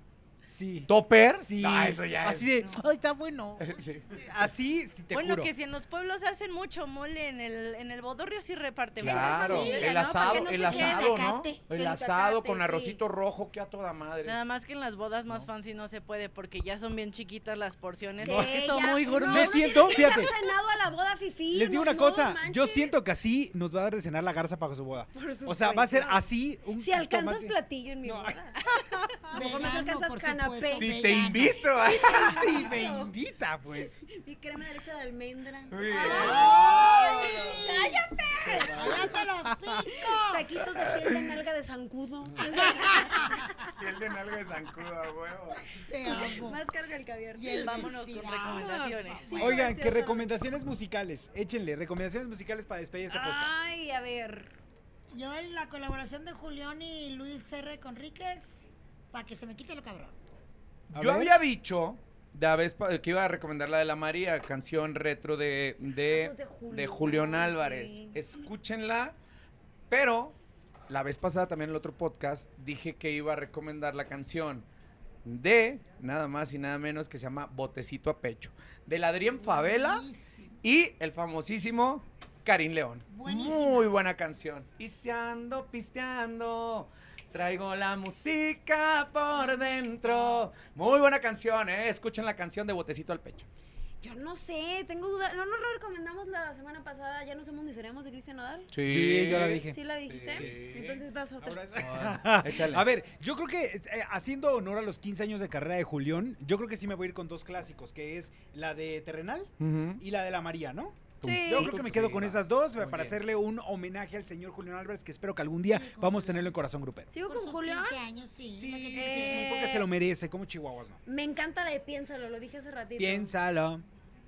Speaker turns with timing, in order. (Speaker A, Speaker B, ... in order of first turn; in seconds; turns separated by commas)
Speaker A: 0.5-0.9, Speaker B: 0.9-2.7, Speaker A: 1.4-5.5, Speaker B: 3.6-4.3, Speaker C: 5.1-10.0, Speaker B: 9.0-14.4, Speaker D: 9.0-13.0, Speaker E: 9.4-9.9, Speaker E: 10.6-11.6, Speaker C: 14.2-20.1, Speaker D: 18.2-23.0, Speaker A: 18.2-18.5, Speaker A: 19.3-20.3, Speaker A: 21.5-29.4, Speaker D: 25.1-33.1, Speaker E: 29.3-31.6, Speaker B: 30.7-32.6, Speaker A: 32.0-34.0, Speaker D: 33.7-39.1, Speaker B: 35.7-37.6, Speaker A: 36.1-37.7, Speaker E: 36.1-37.0, Speaker B: 38.4-39.1, Speaker E: 38.6-40.5, Speaker A: 38.8-39.8, Speaker D: 39.8-43.7, Speaker B: 40.7-41.3, Speaker B: 42.2-42.5, Speaker E: 42.4-43.5, Speaker B: 43.7-45.7, Speaker E: 45.8-46.6, Speaker D: 46.0-48.0, Speaker E: 47.3-49.6, Speaker C: 47.5-49.6, Speaker D: 48.6-50.4, Speaker A: 49.3-53.6, Speaker D: 53.1-54.5, Speaker E: 55.1-60.2, Speaker A: 60.9-61.3, Speaker B: 60.9-69.1, Speaker D: 66.1-68.2, Speaker B: 69.9-70.3, Speaker B: 70.9-74.7, Speaker B: 75.2-80.0, Speaker E: 79.4-80.6, Speaker B: 80.6-93.5, Speaker E: 83.1-83.9, Speaker E: 89.4-90.2, Speaker D: 94.0-101.6, Speaker B: 98.7-101.0, Speaker A: 98.8-99.8, Speaker A: 100.3-100.6, Speaker A: 101.4-117.1, Speaker B: 101.8-102.9, Speaker B: 109.6-110.0, Speaker B: 111.2-113.2, Speaker D: 111.2-111.8, Speaker E: 115.7-116.5, Speaker D: 117.1-118.0, Speaker E: 117.3-119.7, Speaker A: 118.5-121.0, Speaker D: 118.9-119.9, Speaker D: 121.0-123.3, Speaker A: 123.0-123.8